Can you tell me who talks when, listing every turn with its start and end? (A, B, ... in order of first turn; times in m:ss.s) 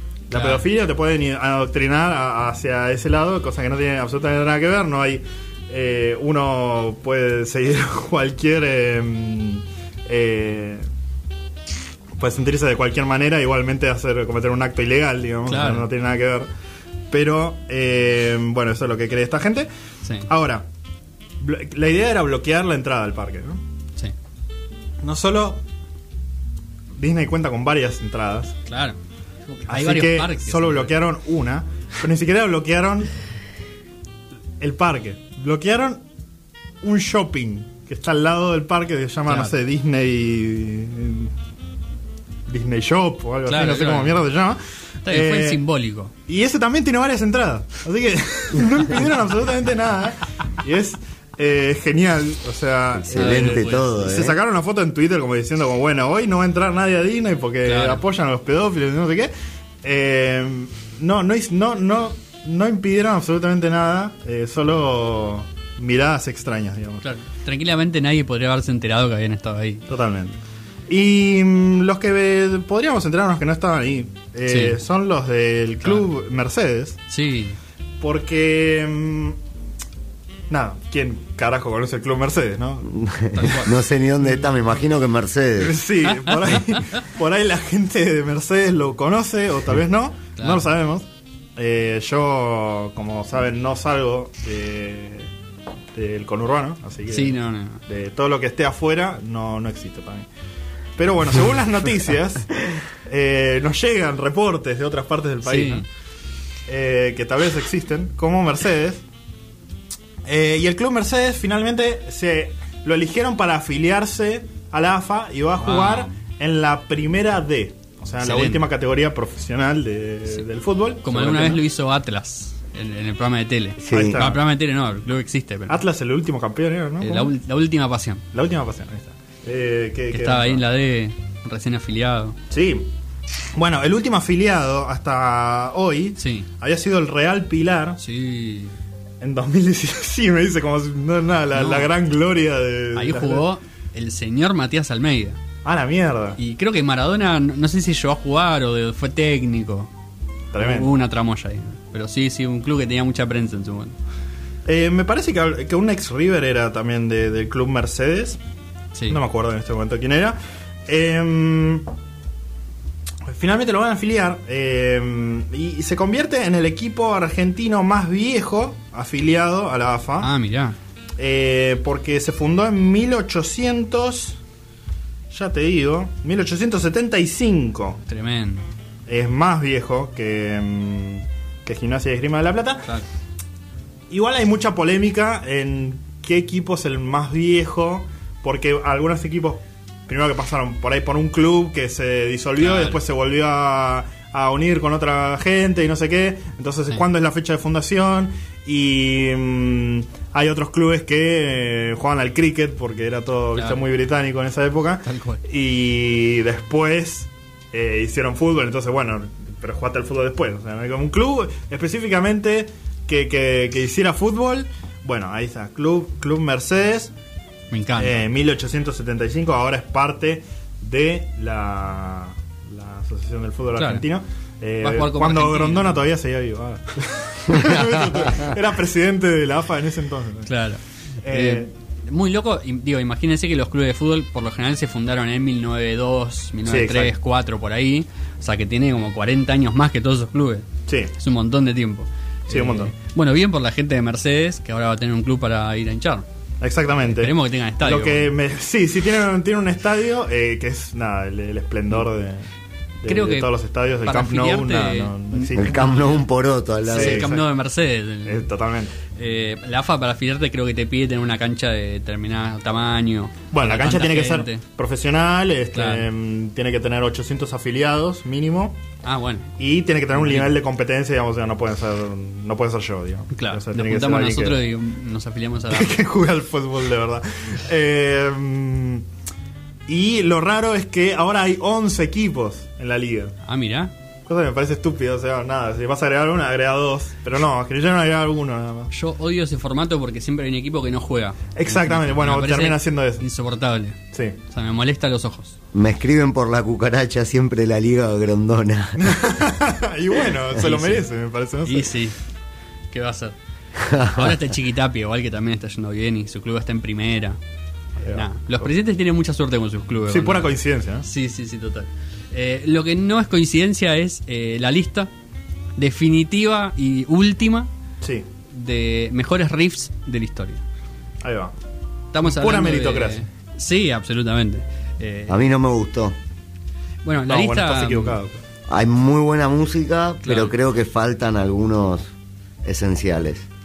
0:00.3-0:10.8 A
0:00.3-0:00.6 B
0:12.2-0:16.5 A
0:15.4-0:15.9 B
0:17.1-0:19.7 A
0:20.3-0:20.7 A
0:21.4-0:23.6 A
0:25.0-0:25.6 A
0:27.0-0:28.5 A
0:28.6-0:29.0 B
0:29.5-0:31.0 B
0:29.7-0:33.1 A
0:34.6-0:36.0 A
0:36.8-0:41.3 A
0:39.3-0:39.5 B
0:42.5-0:45.6 A
0:43.4-0:44.2 B
0:45.0-0:46.1 B
0:46.3-0:59.3 A
0:53.0-0:54.4 C
0:53.1-0:53.9 B
0:57.6-0:58.0 B
0:59.8-1:07.0 A
1:07.0-1:09.8 B
1:09.9-1:17.0 A
1:14.5-1:14.8 B
1:15.8-1:16.1 B
1:17.1-1:17.6 B
1:18.0-1:19.4 A
1:20.5-1:22.9 A
1:22.9-1:25.8 C
1:23.3-1:23.7 B
1:24.2-1:24.8 A
1:25.6-1:35.3 A
1:26.0-1:27.0 B
1:30.4-1:30.6 B
1:35.9-1:37.3 A
1:37.1-1:37.8 B
1:37.9-1:40.3 A
1:41.0-1:45.8 A
1:45.4-1:45.8 B
1:46.7-1:49.0 A
1:50.2-2:01.6 A
1:55.6-1:56.1 B
1:58.2-1:58.6 B
2:01.0-2:05.8 B
2:03.8-2:04.2 C
2:03.9-2:04.4 A
2:05.7-2:07.3 A
2:07.0-2:08.2 B
2:08.3-2:10.6 A
2:10.1-2:12.4 B
2:12.5-2:12.9 A
2:13.6-2:18.0 A
2:16.2-2:16.5 B
2:18.0-2:18.7 B
2:19.2-2:23.4 A
2:21.5-2:21.9 B
2:22.9-2:25.4 B
2:25.6-2:26.4 A
2:26.4-2:29.9 B
2:30.5-2:30.9 A
2:30.6-2:34.0 B
2:34.6-2:38.4 A
2:38.9-2:39.2 B
2:39.1-2:41.8 A
2:43.3-2:50.3 A
2:50.2-2:50.8 B
2:51.2-2:54.4 A
2:55.3-2:58.0 A
2:58.1-2:58.6 B
2:59.1-3:02.9 A
3:04.1-3:37.1 A
3:12.6-3:13.0 B
3:23.6-3:23.8 B
3:25.0-3:25.4 B
3:37.7-3:38.2 B
3:38.0-3:50.5 A
3:43.8-3:44.0 B
3:44.8-3:46.0 B
3:50.5-4:06.2 B
3:51.2-3:51.7 A
3:56.7-3:57.1 A
4:02.5-4:02.9 A
4:06.6-4:12.4 A
4:07.1-4:08.3 B
4:13.0-4:16.0 A
4:13.0-4:13.5 B
4:14.0-4:16.3 B
4:15.6-4:17.3 C
4:16.9-4:17.5 A
4:16.9-4:18.5 B
4:18.2-4:18.9 A
4:19.1-4:24.6 B
4:23.5-4:28.8 A
4:25.7-4:26.1 B
4:29.0-4:29.5 B
4:29.6-4:34.6 A
4:30.1-4:30.5 B
4:33.3-4:36.0 B
4:35.7-4:39.0 A
4:39.9-4:43.3 A
4:43.4-4:43.9 B
4:44.2-4:48.9 A
4:48.9-4:55.6 B
4:51.6-4:53.2 A
4:55.7-4:59.2 C
4:59.0-5:01.9 A
5:00.6-5:01.1 B
5:01.6-5:02.2 B
5:02.9-5:03.4 B
5:03.8-5:04.3 C
5:03.9-5:07.4 B
5:08.0-5:08.7 A
5:08.0-5:15.1 B
5:10.1-5:11.0 A
5:15.8-5:17.7 B
5:18.5-5:20.6 B
5:21.2-5:21.5 A
5:22.1-5:25.4 B
5:22.2-5:23.2 A
5:25.3-5:26.2 C
5:27.0-5:28.2 B
5:27.3-5:28.4 A
5:28.7-5:32.1 C
5:30.2-5:30.5 B
5:32.6-5:33.4 C